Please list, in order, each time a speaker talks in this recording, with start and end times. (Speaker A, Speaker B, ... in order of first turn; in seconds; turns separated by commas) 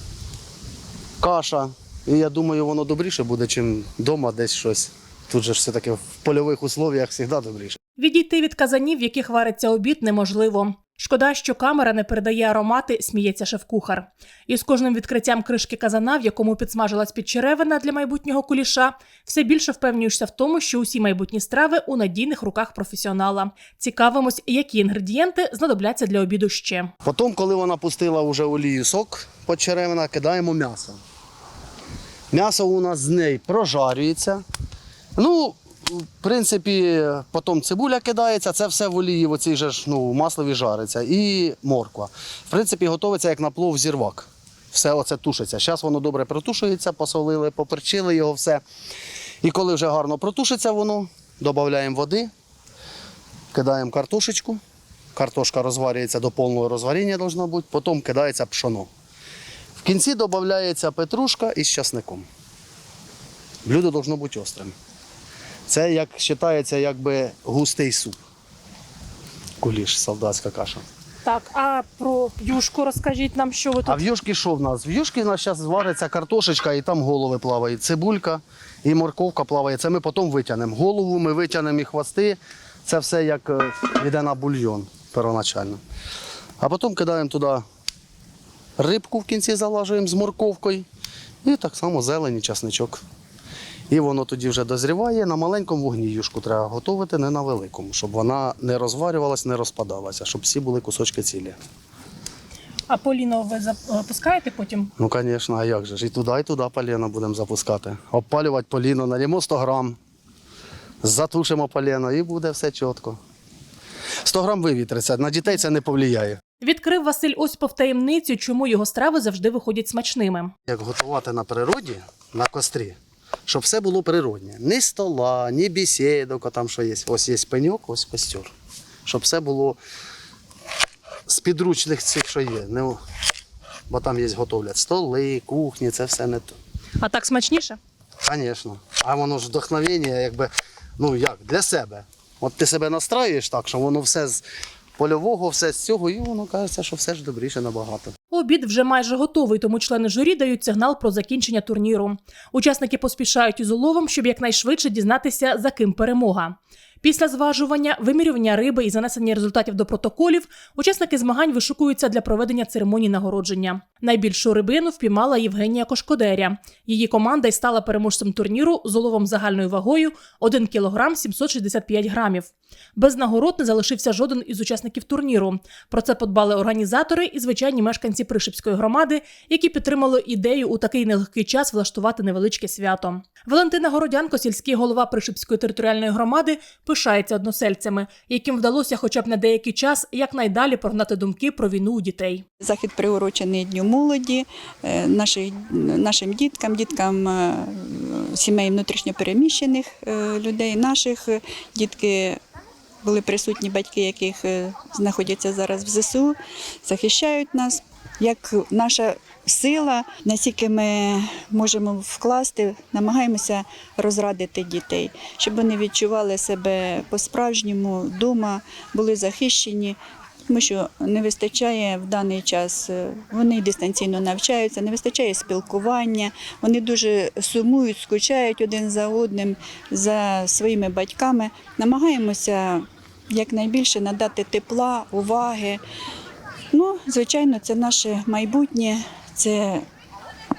Speaker A: 1.2-7.8, Speaker B: 8.0-26.9, Speaker A: 27.0-31.0, Speaker A: 32.3-34.4, Speaker A: 35.2-48.6, Speaker A: 49.4-52.3, Speaker A: 53.5-54.6, Speaker A: 55.1-58.9, Speaker A: 59.8-62.2, Speaker A: 63.6-64.7, Speaker A: 65.7-68.2, Speaker A: 69.6-70.8, Speaker B: 71.2-74.0, Speaker A: 73.8-85.8, Speaker A: 86.6-87.6, Speaker A: 88.8-90.8, Speaker A: 91.4-93.0, Speaker A: 93.9-101.6, Speaker B: 102.9-104.9, Speaker A: 105.0-110.0, Speaker A: 111.0-113.2, Speaker A: 114.2-116.4, Speaker B: 116.6-120.5, Speaker A: 120.7-123.0, Speaker A: 123.5-128.5, Speaker A: 129.1-129.8, Speaker A: 131.3-133.0, Speaker A: 133.9-136.5, Speaker B: 137.0-137.8, Speaker A: 138.2-144.4, Speaker A: 145.0-148.1, Speaker B: 148.3-192.4, Speaker C: 192.6-202.4, Speaker C: 203.0-220.0, Speaker C: 220.5-235.8, Speaker C: 236.7-239.8